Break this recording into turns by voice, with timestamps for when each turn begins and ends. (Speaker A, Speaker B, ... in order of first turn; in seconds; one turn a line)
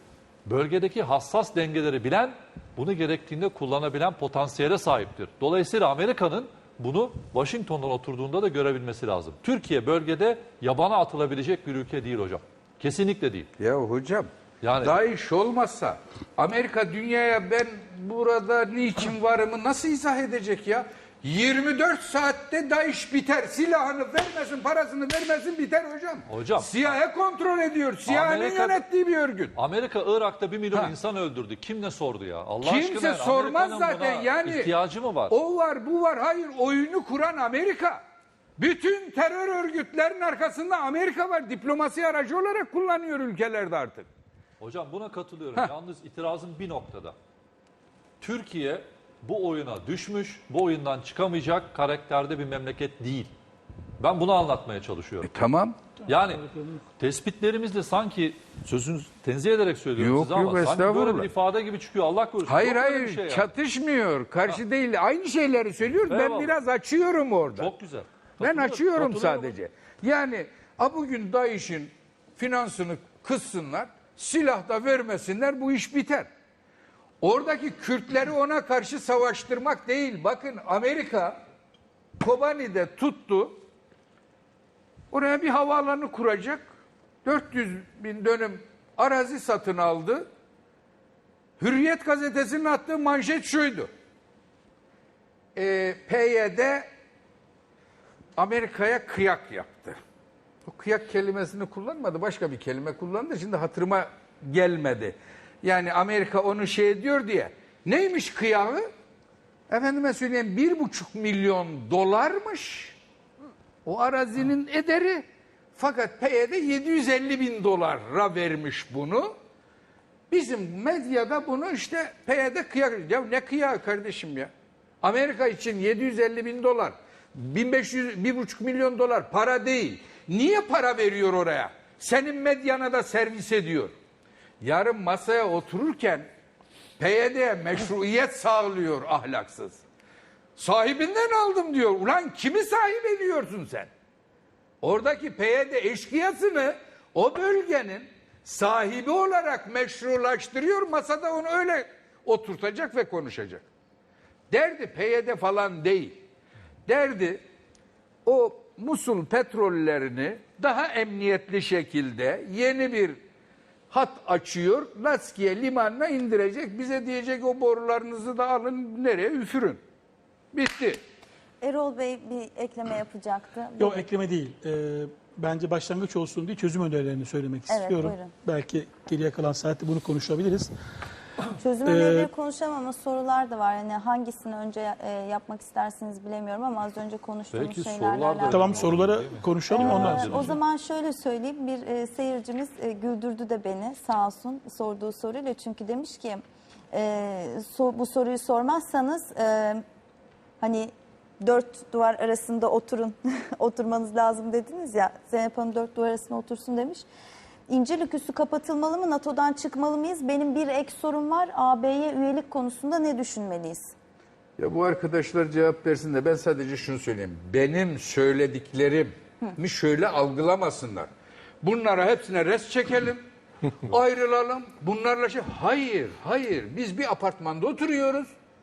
Speaker A: 0.5-13.5
Speaker B: 13.6-14.3
Speaker A: 14.6-14.9
Speaker B: 14.8-29.5
Speaker A: 26.3-26.9
Speaker A: 28.1-28.8
Speaker A: 29.5-35.3
Speaker B: 32.6-34.7
Speaker B: 35.3-38.0
Speaker B: 38.6-44.1
Speaker A: 44.6-47.1
Speaker A: 48.2-53.3
Speaker A: 54.0-55.3
Speaker B: 55.2-55.8
Speaker A: 56.0-56.4
Speaker C: 56.1-56.8
Speaker A: 57.0-63.5
Speaker B: 60.0-61.3
Speaker B: 62.4-67.7
Speaker A: 66.1-66.5
Speaker A: 67.6-69.5
Speaker B: 68.4-76.3
Speaker B: 77.2-81.4
Speaker B: 82.2-83.6
Speaker B: 85.1-86.7
Speaker B: 87.2-90.3
Speaker B: 91.6-93.9
Speaker B: 95.5-96.9
Speaker B: 98.4-100.0
Speaker B: 100.7-108.9
Speaker B: 109.7-113.0
Speaker B: 113.8-115.2
Speaker B: 115.8-119.3
Speaker B: 120.3-124.5
Speaker B: 125.0-133.9
Speaker B: 134.6-136.3
Speaker B: 137.0-139.8
Speaker B: 140.6-143.9
Speaker B: 144.8-153.7
Speaker B: 154.5-156.2
Speaker B: 156.9-157.4
Speaker B: 158.2-163.2
Speaker B: 163.9-169.8
Speaker B: 170.5-171.0
Speaker D: 171.6-174.1
Speaker C: 173.8-180.7
Speaker D: 177.7-178.3
Speaker D: 181.6-188.9
Speaker C: 181.8-182.3
Speaker A: 187.5-190.6
Speaker C: 188.5-190.6
Speaker D: 189.7-199.8
Speaker D: 200.6-207.0
Speaker D: 207.7-213.9
Speaker B: 214.6-221.1
Speaker B: 221.6-223.2
Speaker B: 223.8-228.3